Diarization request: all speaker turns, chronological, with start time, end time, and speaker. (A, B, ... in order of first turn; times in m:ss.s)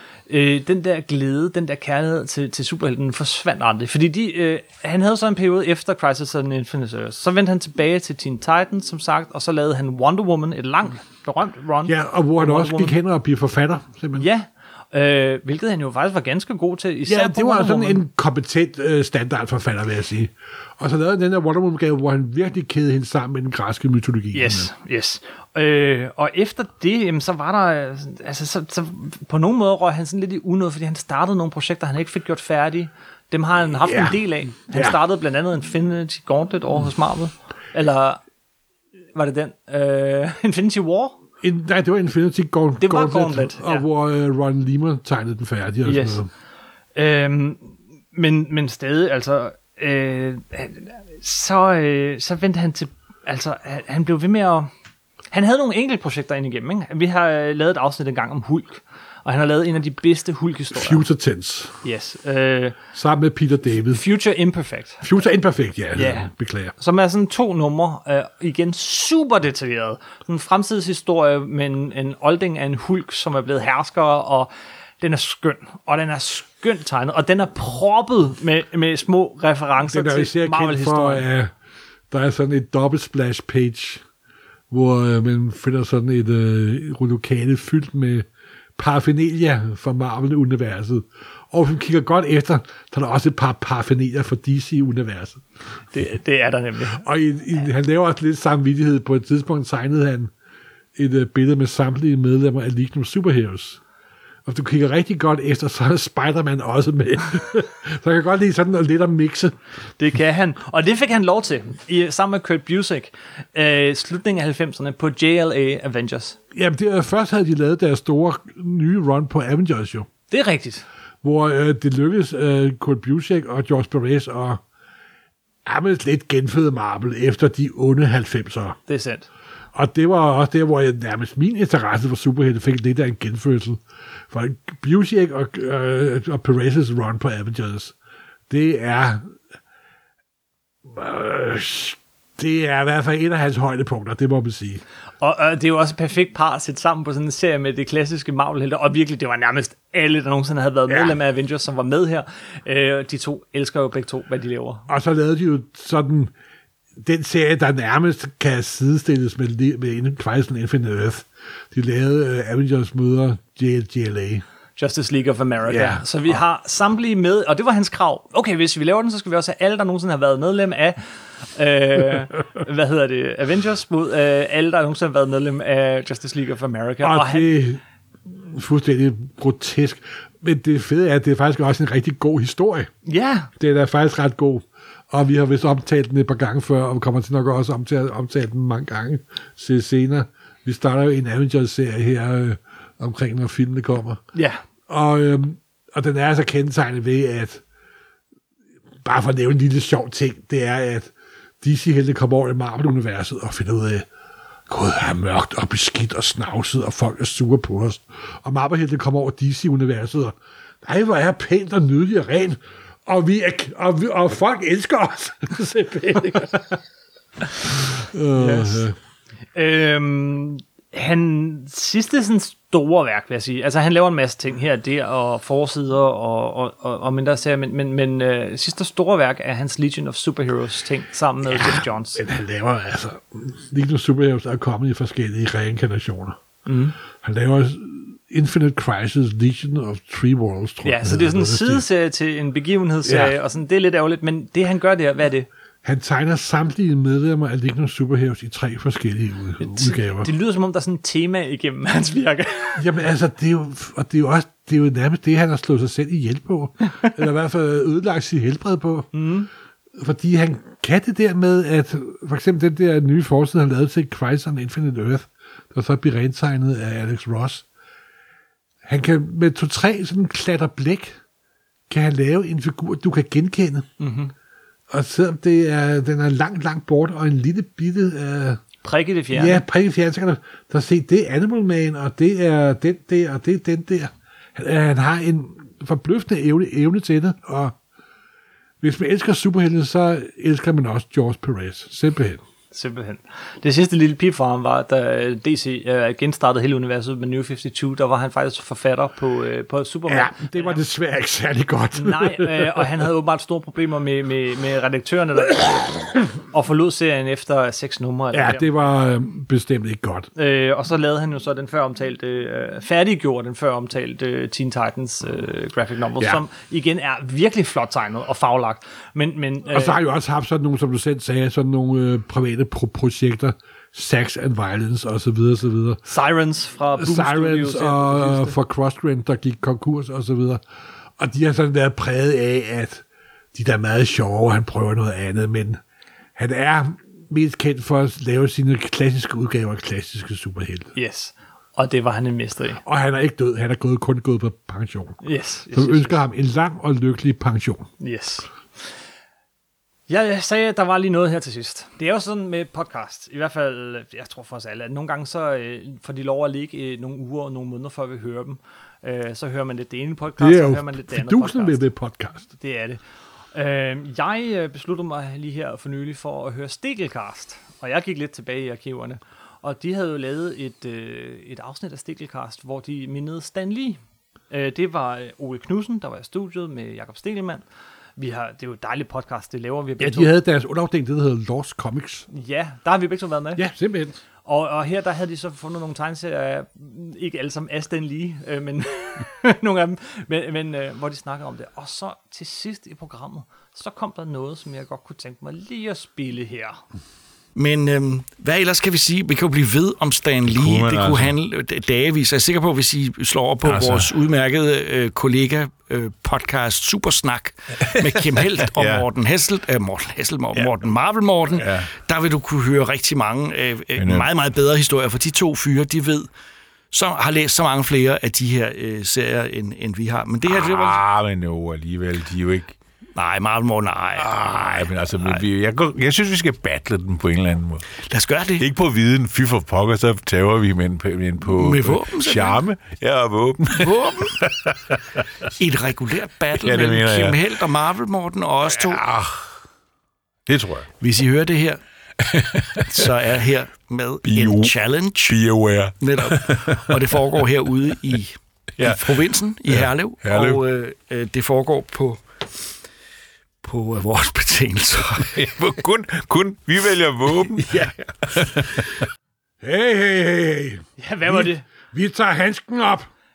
0:00.3-0:13.0 A
0:11.9-0:14.3 B
0:14.2-0:18.0 A
0:17.1-0:24.7 B
0:24.3-0:38.2 A
0:33.8-0:35.0 B
0:39.1-0:41.2 A
0:41.4-0:46.3 B
0:42.8-0:43.9 A
0:45.8-0:46.2 A
0:47.0-0:54.7 A
0:55.3-1:01.0 A
1:00.7-1:01.8 B
1:01.8-1:02.8 A
1:02.9-1:04.0 B
1:03.9-1:05.1 A
1:05.0-1:06.7 B
1:06.0-1:21.3 A
1:19.8-1:21.6 B
1:22.1-1:24.0 B
1:24.7-1:28.3 B
1:28.8-1:35.4 B
1:35.9-1:37.0 A
1:36.9-1:40.3 B
1:41.0-1:43.8 B
1:44.4-1:49.6 B
1:50.0-1:56.4 A
1:56.5-2:00.1 B
2:00.3-2:00.8 A
2:01.2-2:04.6 B
2:05.6-2:08.8 B
2:08.9-2:09.3 A
2:09.7-2:18.0 B
2:18.5-2:19.3 B
2:20.9-2:24.8 B
2:25.2-2:34.9 A
2:30.9-2:31.2 B
2:34.9-2:36.3 B
2:37.0-2:44.4 B
2:44.8-2:51.0 A
2:45.7-2:46.4 B
2:51.5-2:57.6 A
2:57.0-3:02.9 B
3:03.0-3:03.5 A
3:03.6-3:14.2 B
3:14.3-3:14.6 A
3:14.9-3:17.6 B
3:19.0-3:24.1 B
3:24.7-3:36.7 B
3:38.0-3:39.0 B
3:38.3-3:38.8 A
3:39.6-3:52.2 A
3:51.4-3:56.4 B
3:56.6-3:57.0 A
3:57.2-4:01.8 B
4:00.8-4:05.5 A
4:03.0-4:03.3 B
4:05.8-4:10.3 B
4:09.6-4:12.8 A
4:12.8-4:19.1 B
4:19.1-4:19.5 A
4:19.9-4:27.6 B
4:28.8-4:31.2 B
4:31.9-4:33.9 B
4:34.0-4:34.3 A
4:34.9-4:38.6 B
4:38.8-4:39.6 A
4:39.3-4:47.7 B
4:48.8-4:52.4 B
4:52.7-5:00.8 A
5:00.1-5:02.9 B
5:01.9-5:08.7 A
5:08.3-5:10.3 B
5:10.4-5:20.0 A
5:19.7-5:26.0 B
5:26.0-5:28.6 A
5:27.0-5:30.6 B
5:31.2-5:35.8 B
5:36.4-5:40.9 B
5:41.0-5:42.8 A
5:42.8-5:45.2 B
5:45.2-5:46.2 A
5:45.7-5:47.9 B
5:48.0-5:48.5 A
5:50.1-6:01.8 A
6:00.4-6:02.5 B
6:02.6-6:03.0 A
6:03.5-6:14.0 A
6:14.5-6:17.6 A
6:18.2-6:20.3 A
6:20.0-6:22.3 B
6:22.3-6:23.6 A
6:23.6-6:24.2 B
6:24.4-6:36.8 A
6:37.6-6:56.3 C
6:40.5-6:41.3 D
6:43.6-6:44.1 D
6:48.8-6:49.0 D
6:50.6-6:50.9 D
6:51.6-6:51.9 D
6:54.0-6:54.3 D
6:56.9-7:01.0 C
7:00.4-7:02.8 D
7:03.2-7:04.7 C
7:04.2-7:07.9 D
7:08.0-7:08.6 C
7:08.6-7:15.0 D
7:11.4-7:12.6 C
7:13.8-7:14.4 C
7:15.6-7:19.0 C
7:16.6-7:17.4 D
7:18.7-7:19.6 D
7:20.5-7:20.9 D
7:21.0-7:21.8 C
7:22.3-7:23.1 D
7:22.3-7:25.4 C
7:24.3-7:26.8 D
7:26.0-7:32.4 C
7:28.8-7:30.6 D
7:33.6-7:35.7 C
7:35.3-7:39.0 D
7:39.6-7:43.1 B
7:41.0-7:41.7 A